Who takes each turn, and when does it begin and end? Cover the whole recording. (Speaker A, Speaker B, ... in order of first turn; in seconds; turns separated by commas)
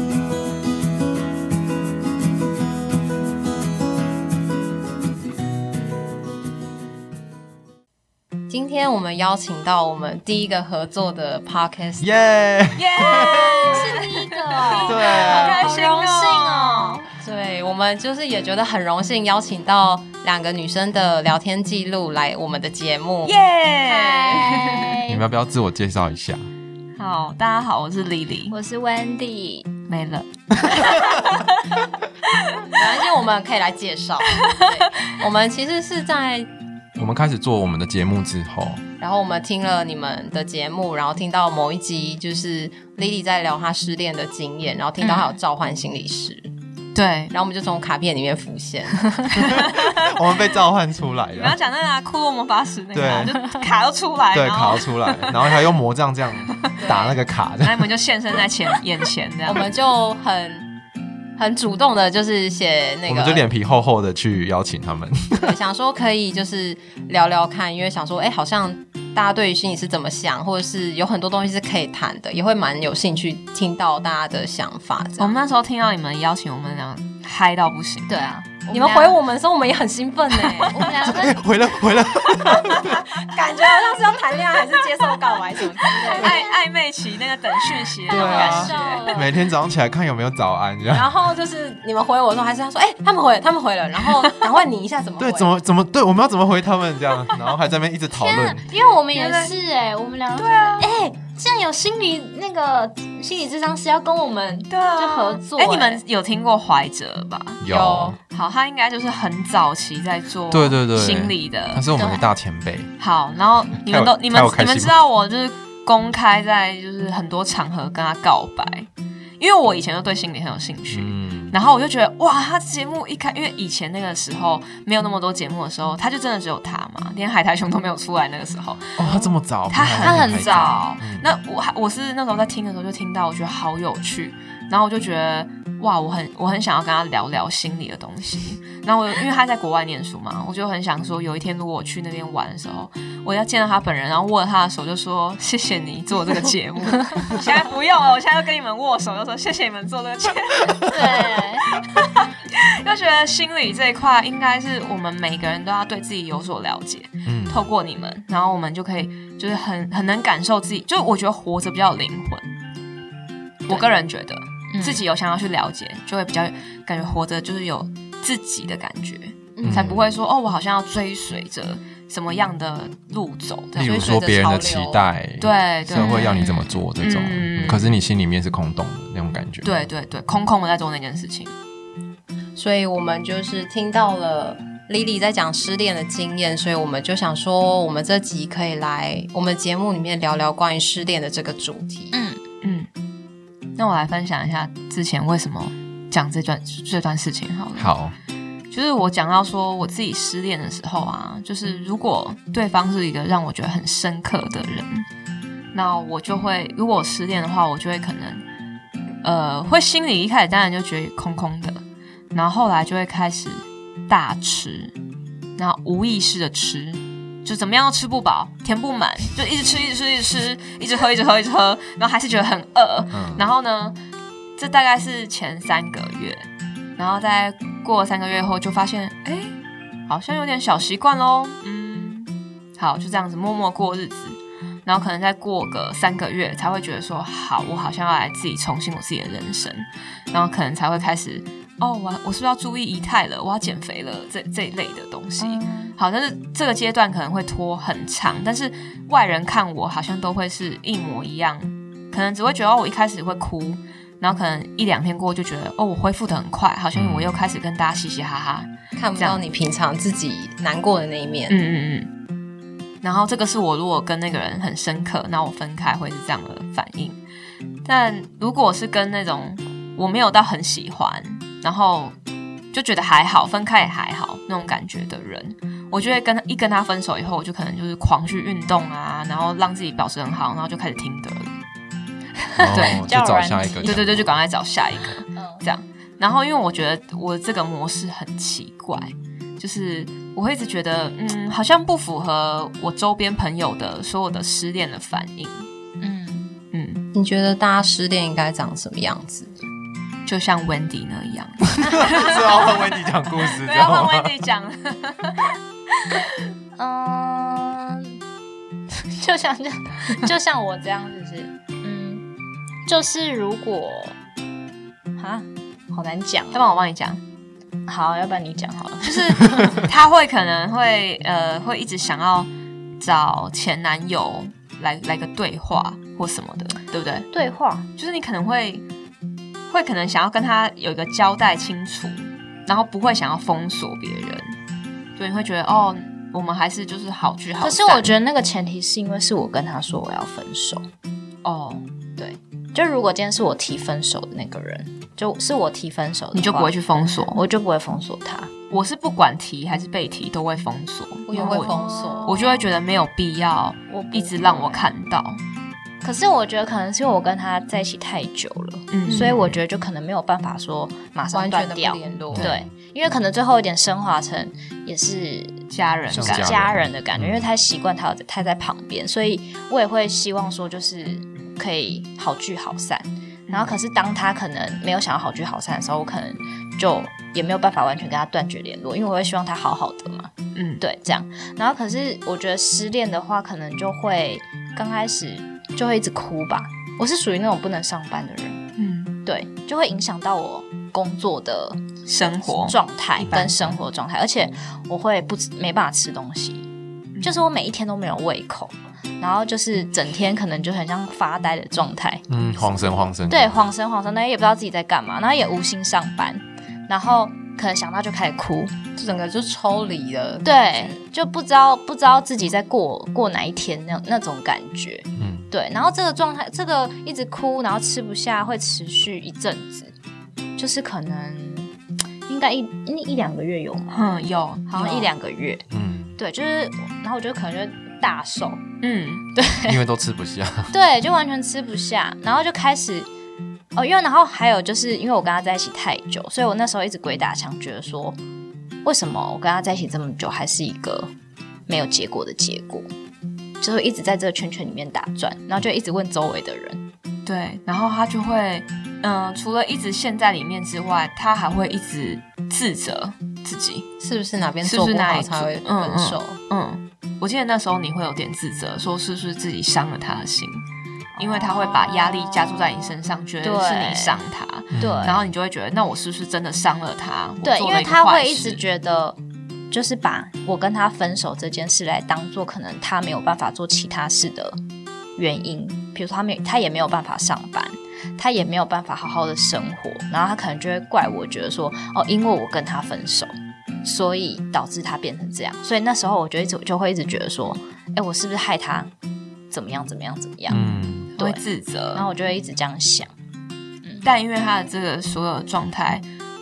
Speaker A: 8.5-12.1, Speaker B: 12.0-13.7, Speaker C: 12.8-17.0, Speaker D: 13.2-17.0, Speaker B: 14.8-15.6, Speaker A: 17.1-23.4, Speaker C: 23.2-25.0, Speaker D: 23.8-25.2, Speaker B: 25.1-26.5, Speaker C: 27.0-28.6, Speaker D: 28.5-29.7, Speaker C: 29.9-31.6, Speaker B: 30.7-31.1, Speaker C: 32.3-32.7, Speaker A: 32.7-36.5, Speaker C: 34.4-34.7, Speaker B: 37.0-38.8, Speaker A: 39.0-46.5, Speaker D: 45.0-45.4, Speaker C: 47.0-47.3, Speaker A: 47.3-49.5, Speaker B: 49.4-51.6, Speaker C: 49.5-49.9, Speaker C: 51.3-55.5, Speaker B: 52.9-53.4, Speaker B: 54.3-57.9, Speaker A: 56.8-57.2, Speaker C: 57.6-59.7, Speaker A: 59.4-60.7, Speaker A: 61.4-63.4, Speaker B: 63.0-65.4, Speaker A: 65.3-75.4, Speaker C: 75.2-79.2, Speaker D: 78.1-78.6, Speaker A: 78.7-80.8, Speaker C: 80.4-80.7, Speaker D: 80.7-81.4, Speaker B: 81.0-83.0, Speaker A: 82.5-86.4, Speaker D: 85.8-86.5, Speaker C: 85.8-89.1, Speaker D: 88.1-89.3, Speaker B: 88.1-91.1, Speaker A: 90.9-95.5, Speaker B: 95.2-98.6, Speaker D: 98.1-106.0, Speaker C: 99.1-99.5, Speaker C: 100.4-100.9, Speaker C: 104.7-107.6, Speaker B: 107.6-108.2, Speaker A: 107.7-108.2, Speaker C: 108.3-111.8, Speaker B: 110.5-112.9, Speaker D: 111.9-112.2, Speaker C: 113.0-118.9, Speaker B: 113.9-114.9, Speaker C: 119.4-162.6, Speaker B: 120.9-121.5, Speaker B: 129.0-131.3, Speaker D: 130.0-130.8, Speaker D: 150.9-151.7, Speaker B: 157.3-157.7, Speaker C: 163.7-173.9, Speaker D: 164.7-165.0, Speaker A: 169.6-169.9, Speaker B: 169.6-170.2, Speaker B: 173.8-179.7, Speaker A: 173.8-175.0, Speaker C: 175.4-176.5, Speaker D: 175.9-176.7, Speaker C: 177.0-177.9, Speaker C: 179.6-181.5, Speaker A: 182.6-192.2, Speaker D: 192.1-192.4, Speaker C: 192.6-192.9, Speaker C: 193.8-197.9, Speaker B: 197.8-198.1, Speaker C: 198.7-205.1, Speaker C: 205.7-208.4, Speaker C: 209.2-214.9, Speaker C: 215.6-224.0, Speaker B: 223.1-223.5, Speaker C: 224.6-226.5, Speaker C: 227.0-229.6, Speaker C: 230.1-259.4, Speaker D: 245.4-245.9, Speaker B: 256.9-257.4, Speaker A: 258.9-261.6, Speaker C: 261.5-262.1, Speaker C: 263.0-267.2, Speaker C: 267.8-272.1, Speaker C: 272.7-281.5, Speaker D: 282.4-284.0, Speaker B: 282.6-284.4, Speaker C: 282.7-283.0, Speaker C: 283.8-295.6, Speaker D: 285.4-285.6, Speaker D: 296.0-296.6, Speaker C: 296.7-297.0, Speaker A: 297.1-299.5, Speaker C: 300.2-305.5, Speaker B: 301.8-304.3, Speaker D: 306.8-308.2, Speaker D: 308.9-312.2, Speaker D: 312.9-314.1, Speaker D: 315.2-316.6, Speaker C: 316.5-317.2, Speaker D: 317.9-319.8, Speaker C: 319.0-322.5, Speaker C: 323.0-327.3, Speaker D: 327.3-327.8, Speaker C: 328.0-328.8, Speaker C: 329.7-334.6, Speaker C: 335.2-338.1, Speaker D: 337.6-340.9, Speaker C: 341.4-341.8, Speaker D: 342.2-348.5, Speaker C: 346.3-347.4, Speaker C: 348.7-355.4, Speaker A: 351.3-352.3, Speaker D: 351.3-352.7, Speaker D: 353.9-354.9, Speaker D: 356.0-365.6, Speaker C: 358.9-359.5, Speaker A: 359.1-359.4, Speaker B: 359.2-359.6, Speaker A: 361.3-362.5, Speaker B: 362.3-362.7, Speaker C: 365.7-366.6, Speaker B: 366.1-367.5, Speaker D: 366.1-388.6, Speaker C: 373.5-373.8, Speaker C: 380.5-380.8, Speaker C: 388.8-389.1, Speaker D: 389.2-391.9, Speaker C: 392.1-393.8, Speaker D: 392.4-396.6, Speaker B: 393.2-393.5, Speaker C: 397.1-397.4, Speaker D: 397.2-408.8, Speaker B: 402.3-403.7, Speaker A: 408.9-410.9, Speaker D: 410.4-419.9, Speaker B: 415.2-415.5, Speaker D: 420.6-421.7, Speaker D: 422.2-424.1, Speaker C: 423.9-425.1, Speaker D: 424.7-425.6, Speaker B: 425.7-426.2, Speaker D: 426.2-428.6, Speaker C: 428.8-429.2, Speaker D: 429.3-429.8, Speaker B: 429.6-430.7, Speaker D: 430.7-433.1, Speaker D: 433.8-438.2, Speaker D: 438.8-441.1, Speaker D: 441.7-442.9, Speaker D: 443.6-446.8, Speaker C: 447.2-453.9, Speaker A: 454.0-456.4, Speaker C: 454.6-460.6, Speaker D: 461.1-464.2, Speaker C: 461.2-468.6, Speaker B: 464.7-465.3, Speaker D: 464.8-465.2, Speaker D: 467.4-469.2, Speaker D: 469.7-474.6, Speaker D: 475.1-483.3, Speaker D: 483.8-488.9, Speaker D: 489.5-491.4, Speaker B: 490.5-491.1, Speaker C: 490.5-492.1, Speaker D: 491.9-493.1, Speaker C: 494.0-496.0